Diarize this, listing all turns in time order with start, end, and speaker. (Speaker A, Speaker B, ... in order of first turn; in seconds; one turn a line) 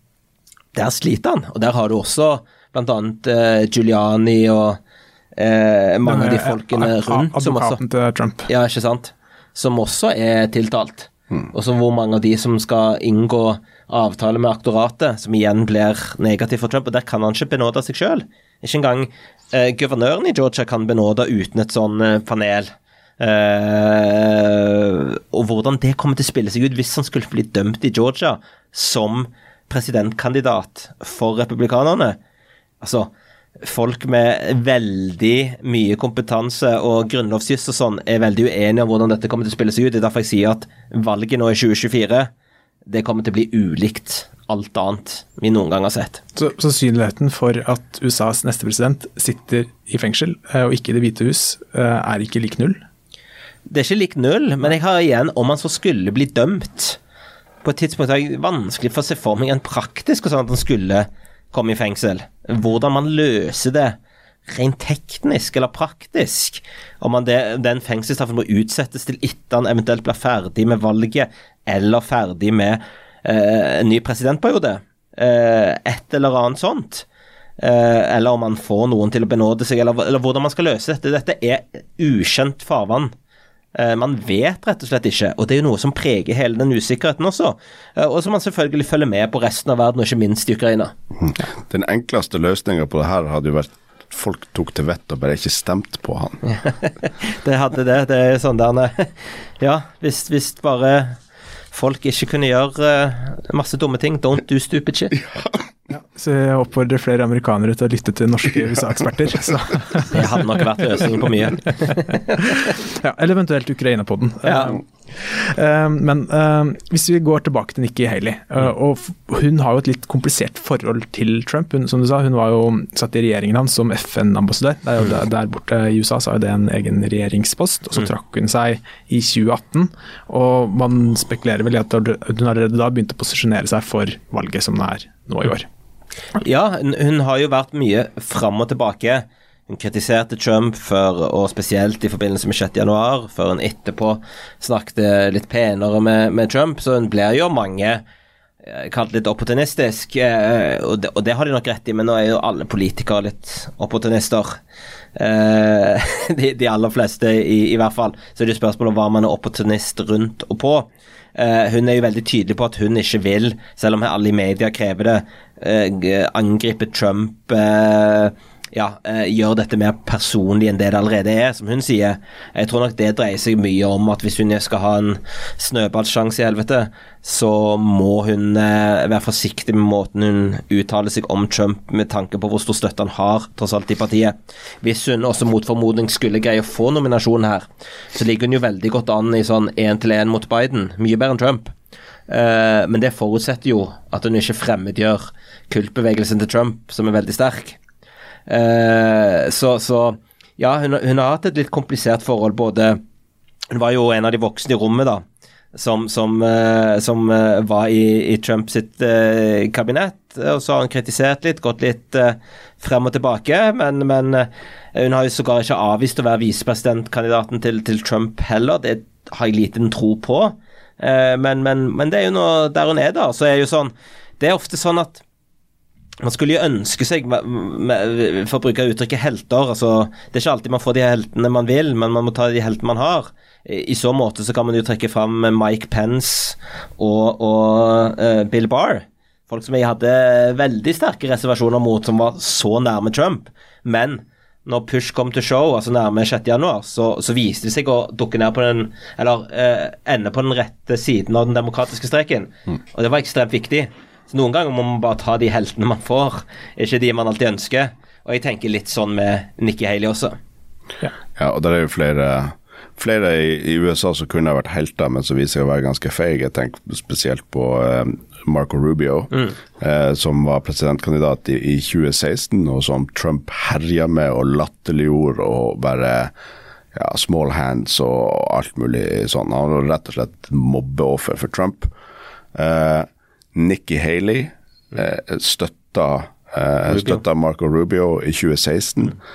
Speaker A: 0.7-4.8
Speaker A: 5.4-7.8
Speaker B: 6.0-8.5
Speaker A: 8.5-32.2
Speaker A: 32.8-33.1
Speaker A: 33.6-42.3
Speaker A: 42.9-46.2
Speaker B: 46.4-52.8
Speaker A: 53.7-57.0
Speaker A: 57.6-64.0
Speaker A: 64.5-77.0
Speaker A: 77.6-83.1
Speaker A: 83.7-90.9
Speaker C: 91.2-96.4
Speaker A: 96.5-101.2
Speaker A: 101.7-105.2
Speaker B: 105.9-110.6
Speaker A: 110.1-112.4
Speaker B: 111.8-135.7
Speaker A: 114.4-114.7
Speaker A: 136.4-148.0
Speaker A: 148.7-154.6
Speaker A: 155.2-191.7
Speaker A: 192.3-197.8
Speaker A: 198.5-203.0
Speaker A: 203.7-225.2
Speaker A: 226.2-260.3
Speaker C: 261.4-276.3
Speaker C: 276.9-281.9
Speaker C: 282.5-289.2